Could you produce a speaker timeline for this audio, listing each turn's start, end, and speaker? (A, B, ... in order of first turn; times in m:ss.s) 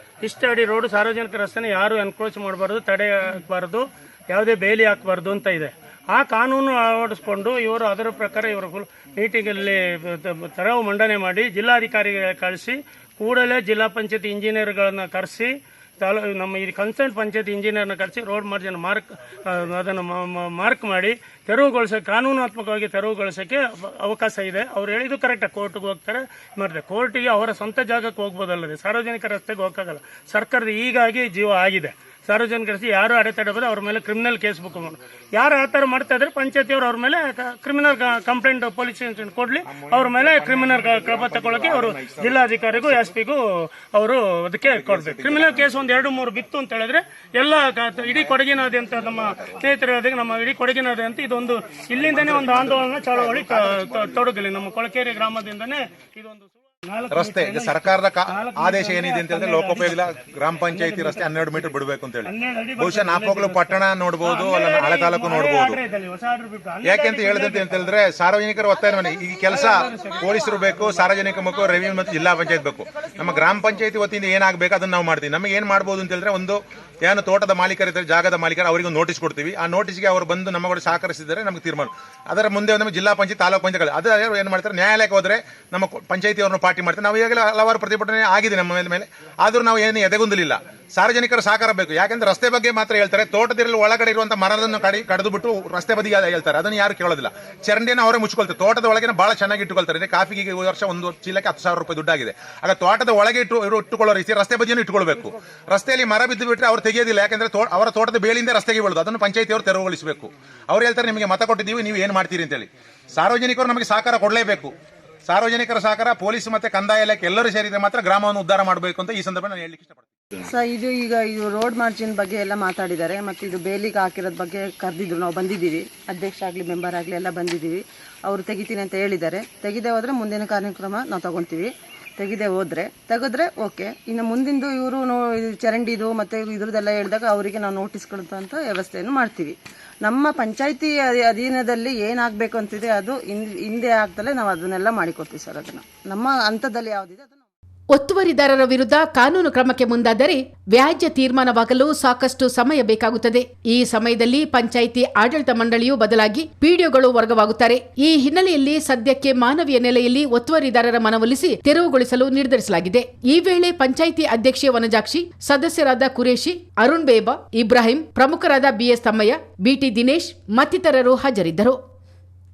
0:00.2-1:00.0 A
0:39.7-0:43.0 B
0:44.7-0:45.7 B
0:52.0-0:54.0 B
0:57.1-1:05.8 B
1:00.6-1:01.5 A
1:02.2-1:07.9 A
1:06.8-1:54.7 B
1:09.5-1:10.7 A
1:55.3-2:00.1 B
2:00.4-2:27.4 C
2:28.0-2:51.8 D